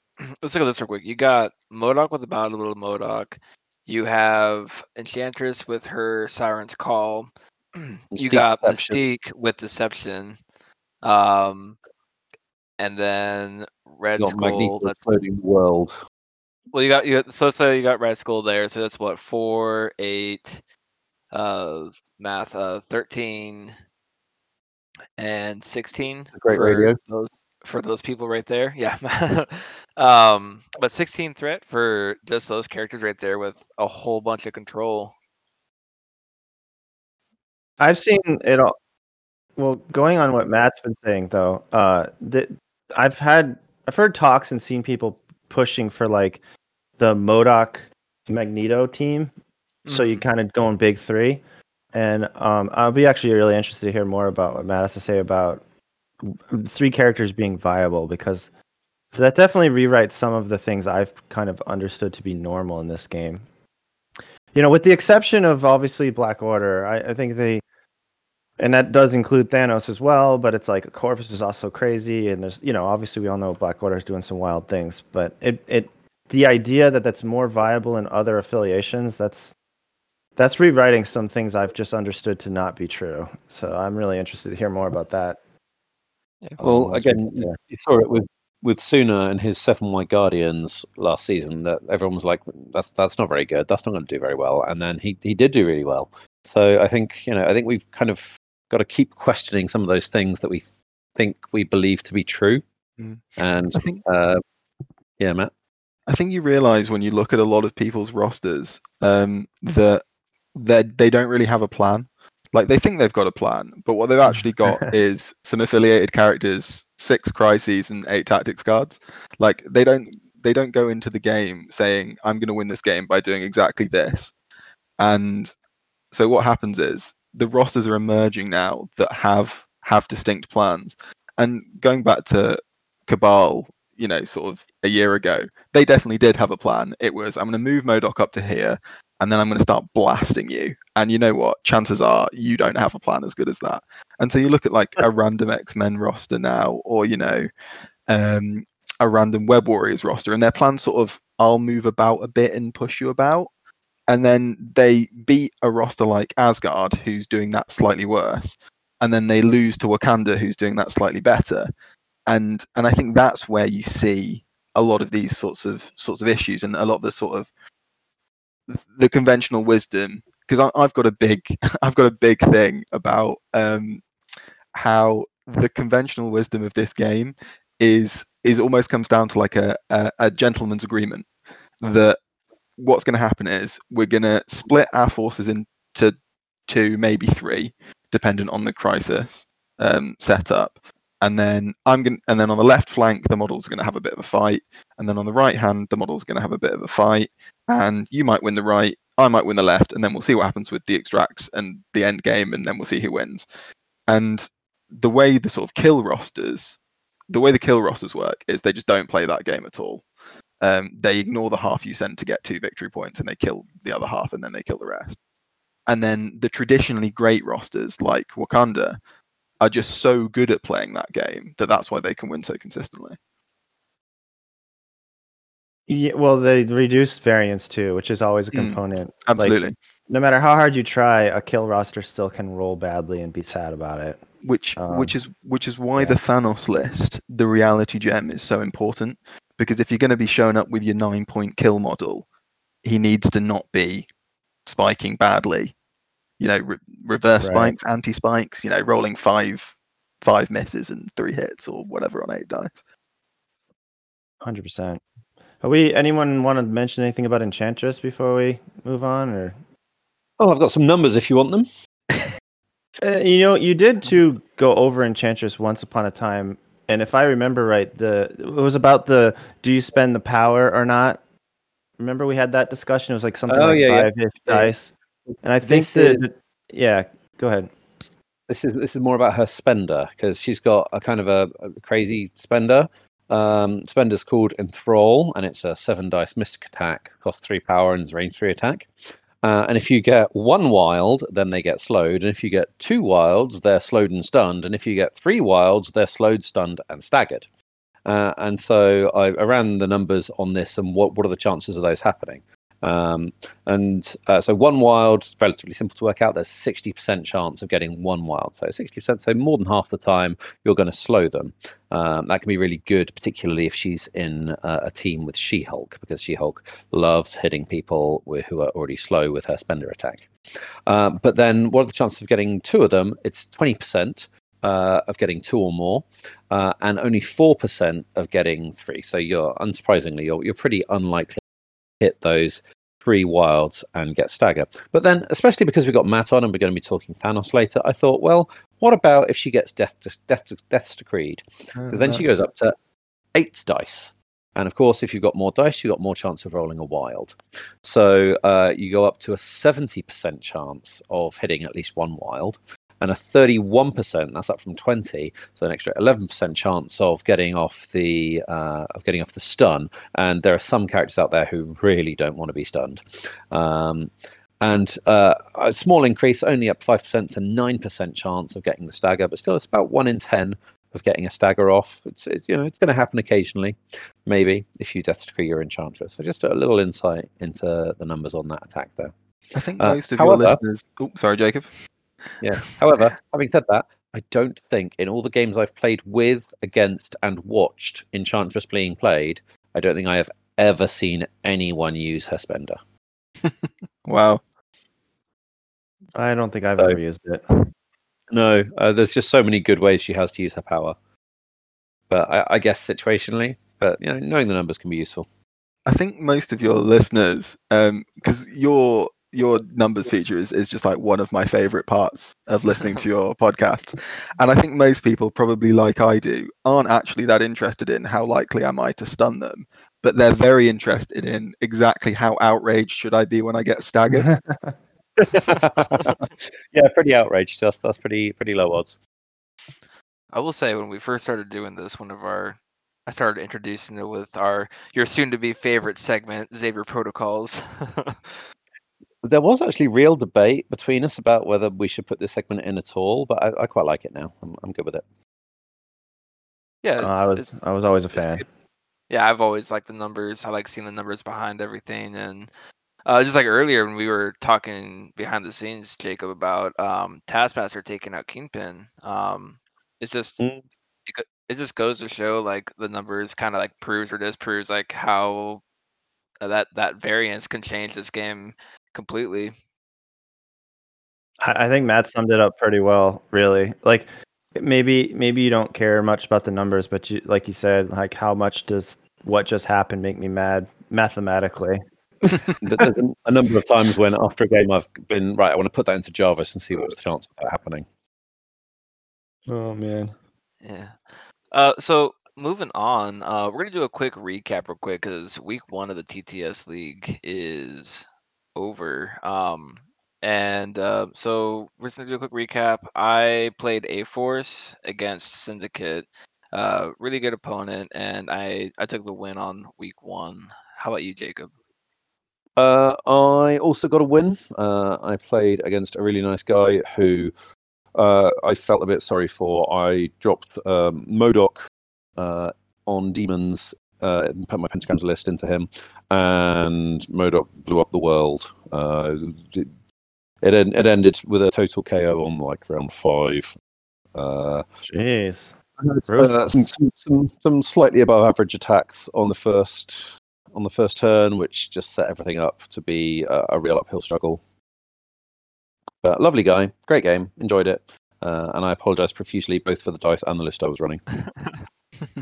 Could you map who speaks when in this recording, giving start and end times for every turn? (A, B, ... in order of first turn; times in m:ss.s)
0:00.2-0:10.4 A
0:08.1-0:09.0 B
0:11.0-0:11.8 A
0:12.8-0:15.2 A
0:14.2-0:15.9 B
0:16.7-0:20.6 A
0:21.3-0:23.7 A
0:25.2-0:35.1 A
0:26.3-0:27.0 B
0:37.8-0:38.7 C
0:39.6-0:46.4 C
0:47.0-0:49.3 C
0:49.8-0:50.2 A
0:49.9-0:51.4 C
0:51.9-0:55.6 C
0:56.2-0:58.5 C
0:59.1-1:03.4 C
1:04.5-1:07.6 C
1:08.6-1:19.5 C
1:20.4-1:25.4 C
1:26.6-1:27.6 C
1:26.6-1:42.6 B
1:43.0-1:44.0 D
1:43.4-1:44.4 B
1:45.2-1:45.5 B
1:46.1-1:50.0 D
1:50.5-2:04.3 D
1:54.6-1:54.9 C
2:05.0-2:05.5 D
2:06.1-2:27.5 D
2:28.1-2:33.5 D
2:34.1-2:41.7 D
2:42.3-2:47.5 D
2:48.7-2:54.0 D
2:54.7-3:01.3 D
3:01.8-3:02.2 D
3:02.8-3:06.1 D
3:06.7-3:23.4 D
3:24.1-3:26.8 D
3:27.3-3:30.0 D
3:30.6-3:35.2 D
3:35.9-3:39.0 D
3:39.6-3:43.2 D
3:45.9-3:49.6 C
3:48.5-3:49.7 D
3:50.1-3:54.2 C
3:54.4-4:02.2 D
3:54.8-3:55.1 C
4:02.8-4:04.1 D
4:04.6-4:05.7 D
4:06.4-4:12.7 D
4:07.4-4:07.7 C
4:14.4-4:15.0 C
4:15.6-4:19.6 C
4:20.4-4:21.7 B
4:23.0-4:31.2 C
4:32.0-4:37.7 C
4:33.5-4:34.7 B
4:35.6-4:36.2 B
4:38.5-4:48.9 B
4:49.4-4:57.4 B
4:58.0-5:20.3 B
5:20.9-5:31.4 B
5:32.0-5:42.8 B
5:41.8-5:42.2 D
5:43.3-6:19.1 B
6:19.5-6:21.7 D
6:19.8-6:20.6 B
6:22.4-6:32.8 B
6:33.4-6:34.4 D
6:36.2-6:37.4 C
6:38.3-6:41.0 B
6:42.1-6:45.3 B
6:45.9-7:04.3 D
7:04.2-7:04.7 C
7:05.3-7:09.0 B
7:10.3-7:18.2 A
7:19.2-7:25.0 B
7:26.8-7:27.5 A
7:27.0-7:28.4 C
7:28.1-7:28.5 A
7:29.1-7:32.5 A
7:33.0-7:40.4 A
7:40.4-7:40.6 B
7:41.1-7:45.6 A
7:46.4-7:49.5 A
7:51.4-8:02.5 C
8:02.6-8:07.8 B
8:09.5-8:10.1 C
8:10.6-8:11.0 A
8:11.5-8:31.5 A
8:32.6-8:37.3 B
8:37.9-8:41.6 B
8:42.2-8:49.7 B
8:50.4-8:53.6 B
8:54.1-8:54.6 B
8:54.8-8:55.6 C
8:55.8-9:04.4 B
8:56.1-8:56.7 C
9:06.0-9:11.0 B
9:11.3-9:11.6 A